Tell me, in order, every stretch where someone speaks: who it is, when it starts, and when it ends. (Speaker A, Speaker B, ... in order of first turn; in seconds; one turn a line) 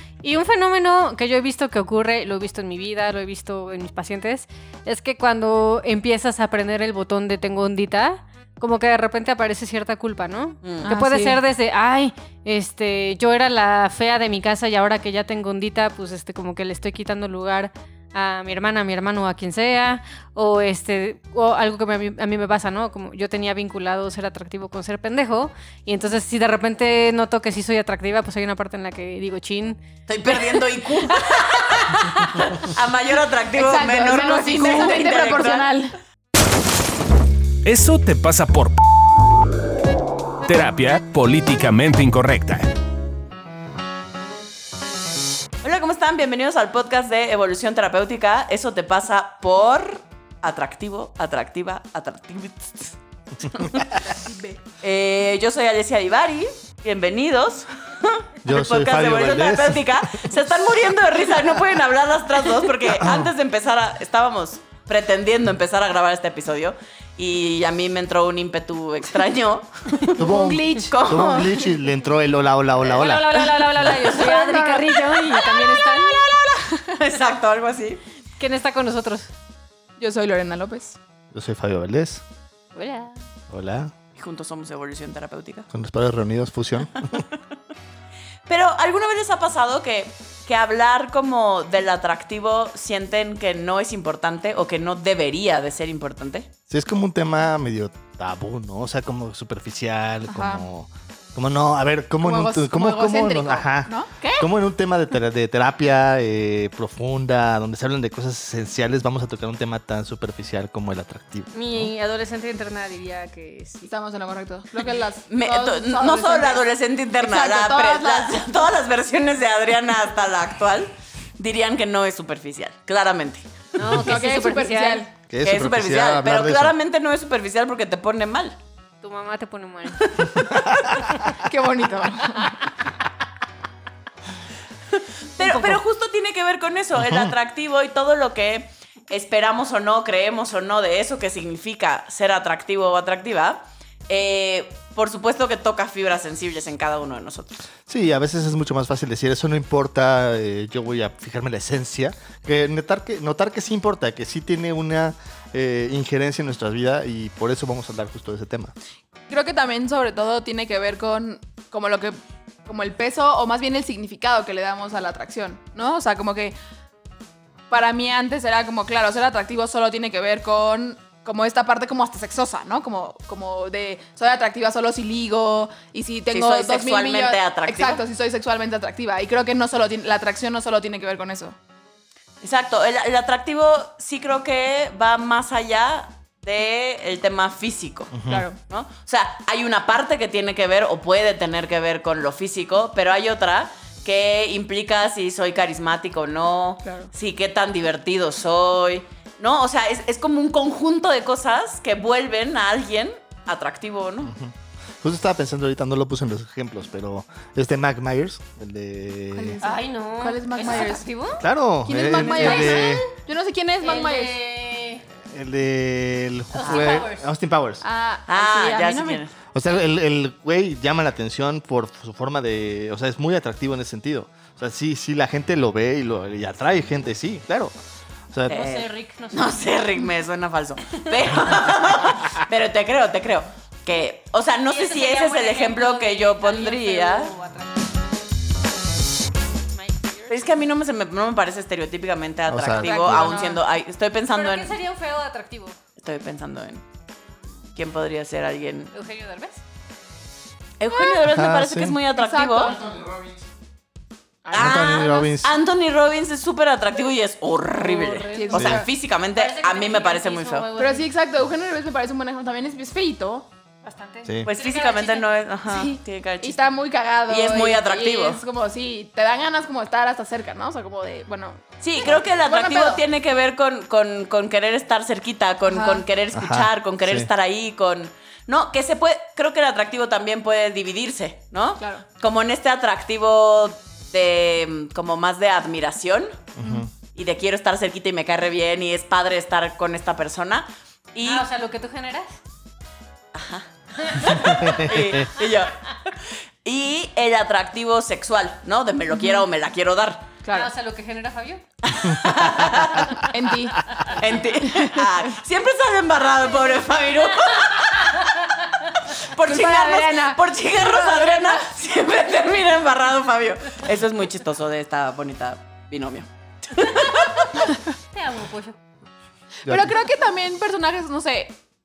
Speaker A: 0.2-29.8
Speaker B: 10.6-10.9
Speaker C: 10.8-11.4
Speaker B: 30.1-35.7
Speaker C: 33.5-36.0
Speaker D: 37.6-38.8
Speaker D: 40.4-42.7
Speaker B: 45.6-53.9
Speaker C: 54.0-54.6
Speaker B: 54.8-70.2
Speaker E: 58.4-60.3
Speaker E: 62.9-63.3
Speaker C: 70.1-71.7
Speaker E: 70.2-73.9
Speaker B: 70.9-71.4
Speaker A: 72.9-76.2
Speaker C: 74.0-77.0
Speaker B: 77.0-78.0
Speaker A: 78.4-79.3
Speaker C: 80.0-81.0
Speaker E: 81.3-82.2
Speaker A: 82.7-83.2
Speaker E: 83.5-83.9
Speaker B: 84.1-85.7
Speaker E: 85.7-87.2
Speaker B: 88.5-96.5
Speaker E: 96.7-111.8
Speaker C: 100.3-100.6
Speaker C: 102.2-104.5
Speaker A: 111.5-113.9
Speaker C: 113.8-116.6
Speaker B: 115.3-124.0
Speaker C: 117.2-118.4
Speaker A: 123.8-125.0
Speaker E: 123.8-124.1
Speaker C: 124.0-125.1
Speaker E: 125.3-126.8
Speaker B: 125.4-128.6
Speaker A: 129.0-130.3
Speaker E: 130.4-131.0
Speaker C: 131.3-132.6
Speaker B: 135.0-147.6
Speaker C: 135.4-135.8
Speaker E: 137.0-137.3
Speaker E: 147.9-158.7
Speaker C: 159.3-166.5
Speaker C: 167.7-181.5
Speaker B: 176.3-178.0
Speaker B: 182.4-204.3
Speaker E: 188.1-188.5
Speaker C: 188.3-188.6
Speaker E: 204.2-209.6
Speaker C: 209.3-211.1
Speaker A: 209.6-211.4
Speaker E: 211.4-213.1
Speaker C: 211.8-214.4
Speaker A: 212.1-213.1
Speaker A: 213.8-215.0
Speaker E: 215.3-217.8
Speaker A: 216.5-217.2
Speaker C: 217.8-219.2
Speaker B: 218.3-219.3
Speaker E: 219.5-227.7
Speaker E: 228.3-228.6
Speaker A: 228.5-229.6
Speaker B: 228.5-237.3
Speaker A: 234.7-237.9
Speaker A: 239.7-240.4
Speaker B: 240.3-244.8
Speaker E: 242.5-243.4
Speaker C: 242.8-243.6
Speaker A: 244.3-245.8
Speaker B: 246.0-246.8
Speaker B: 247.7-248.9
Speaker A: 248.9-249.6
Speaker B: 250.8-252.8
Speaker C: 250.9-251.2
Speaker E: 251.3-252.0
Speaker C: 252.1-253.0
Speaker A: 252.7-252.9
Speaker C: 254.4-255.2
Speaker E: 254.5-255.5
Speaker B: 254.5-260.7
Speaker A: 257.8-258.7
Speaker C: 258.3-258.9
Speaker E: 258.5-258.8
Speaker A: 259.3-261.1
Speaker C: 260.8-263.5
Speaker A: 263.8-265.3
Speaker E: 264.2-264.5
Speaker B: 264.4-266.6
Speaker C: 265.6-273.0
Speaker B: 267.3-268.4
Speaker B: 271.8-286.4
Speaker C: 275.7-276.0
Speaker E: 276.3-277.3
Speaker E: 286.6-286.9
Speaker C: 286.6-286.9
Speaker B: 287.1-291.5
Speaker A: 291.2-292.3
Speaker B: 293.3-300.3
Speaker A: 294.0-294.7
Speaker E: 294.4-295.3
Speaker C: 299.2-299.4
Speaker C: 300.4-300.7
Speaker A: 300.5-301.6
Speaker B: 301.8-303.3
Speaker C: 303.1-303.8
Speaker B: 304.1-308.3
Speaker A: 307.5-308.4
Speaker B: 309.1-317.6
Speaker C: 309.4-311.6
Speaker A: 318.1-318.8
Speaker E: 319.6-319.9
Speaker C: 319.6-321.6